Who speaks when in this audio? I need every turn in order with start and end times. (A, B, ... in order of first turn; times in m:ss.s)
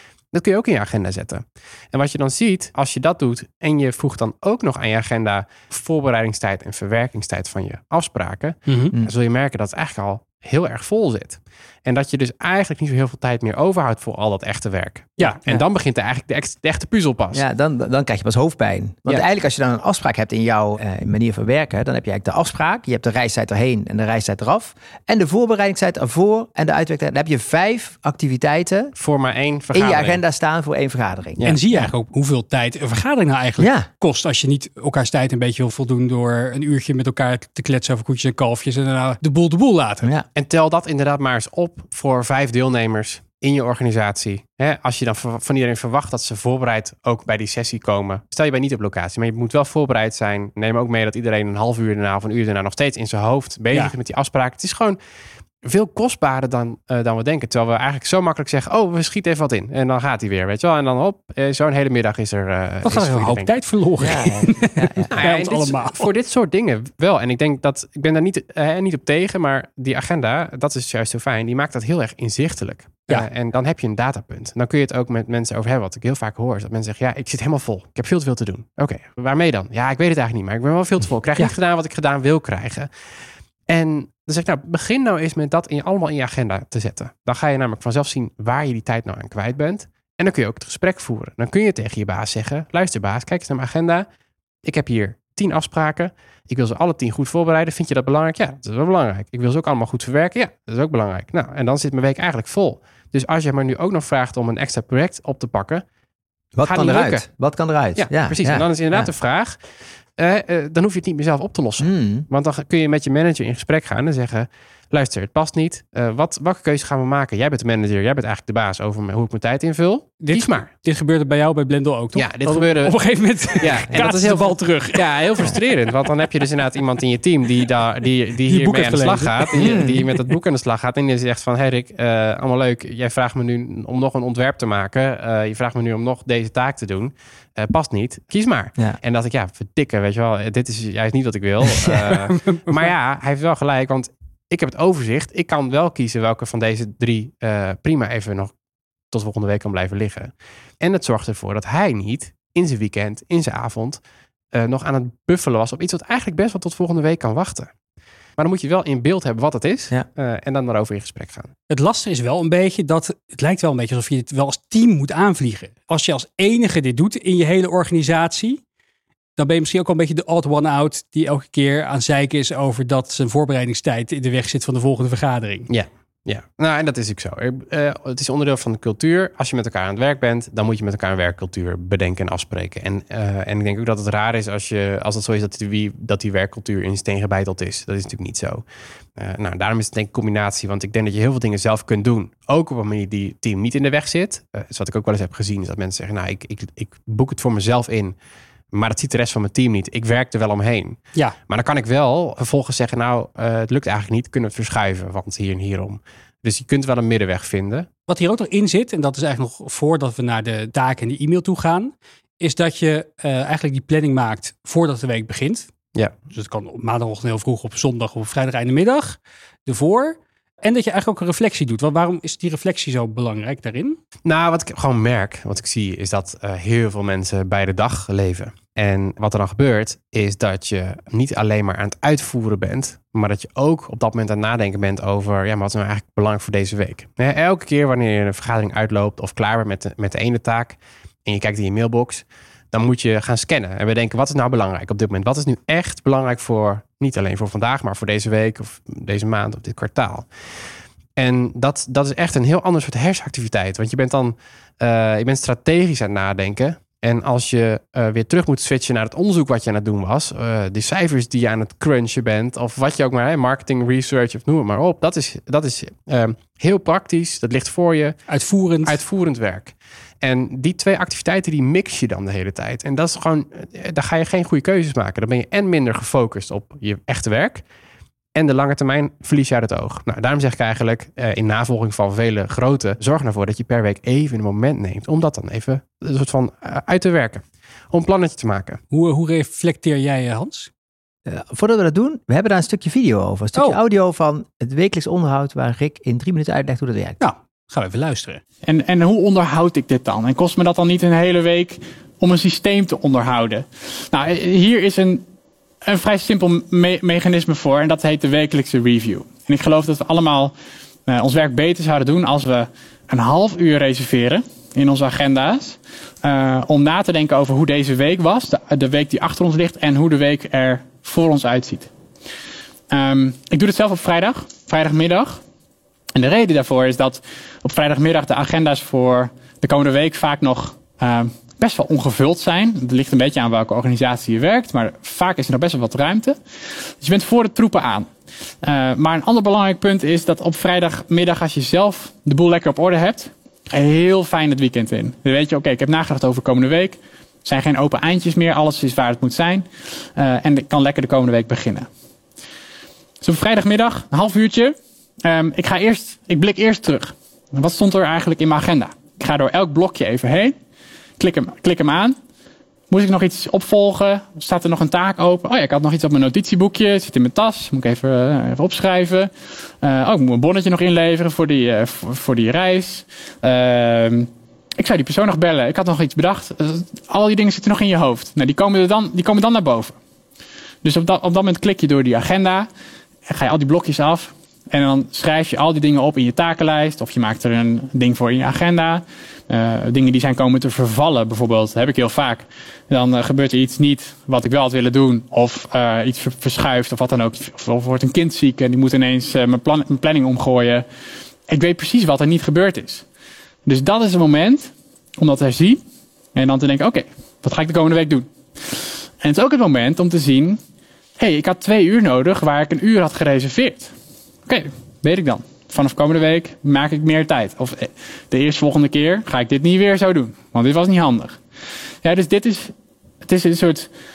0:00.3-0:17.4 A
0:08.7-0:08.9 B
0:15.3-0:15.6 C
0:17.3-0:28.9 C
0:29.0-0:30.2 A
0:29.7-0:31.9 C
0:31.4-0:40.1 B
0:33.6-0:33.9 C
0:40.4-0:55.0 A
0:55.6-1:03.5 A
1:02.8-1:06.1 B
1:04.0-1:05.1 C
1:05.1-1:22.9 A
1:23.7-1:34.0 A
1:34.6-1:45.8 A
1:46.5-1:49.1 C
1:46.6-1:47.2 A
1:47.9-1:49.6 A
1:50.2-2:00.7 A
1:51.8-1:52.2 C
2:00.2-2:06.0 B
2:02.1-2:03.0 A
2:03.5-2:28.5 A
2:08.5-2:09.9 B
2:09.6-2:10.0 C
2:21.9-2:22.9 B
2:29.1-2:34.0 A
2:34.5-2:37.7 A
2:38.4-2:41.5 A
2:41.7-2:48.6 B
2:49.4-2:55.7 B
2:55.7-3:08.6 A
3:09.2-3:18.1 A
3:18.7-3:27.9 A
3:28.1-3:35.7 B
3:36.3-3:44.0 B
3:44.2-4:10.3 A
4:11.2-4:28.2 A
4:28.3-4:29.0 B
4:28.8-4:37.6 A
4:38.3-4:48.8 A
4:48.9-4:50.7 B
4:51.2-4:57.2 C
4:57.2-4:58.4 B
4:58.6-5:05.2 D
5:05.8-5:10.5 D
5:11.1-5:21.9 D
5:22.9-5:25.4 D
5:26.1-5:36.4 D
5:37.0-5:38.1 D
5:38.6-5:51.9 D
5:53.2-6:00.5 D
6:01.2-6:02.2 D
6:02.9-6:20.0 D
6:20.8-6:22.7 D
6:23.2-6:40.8 D
6:41.5-6:43.0 D
6:43.6-6:45.8 D
6:46.3-6:50.6 D
6:51.2-6:53.9 D
6:54.4-7:01.4 D
7:02.0-7:03.9 D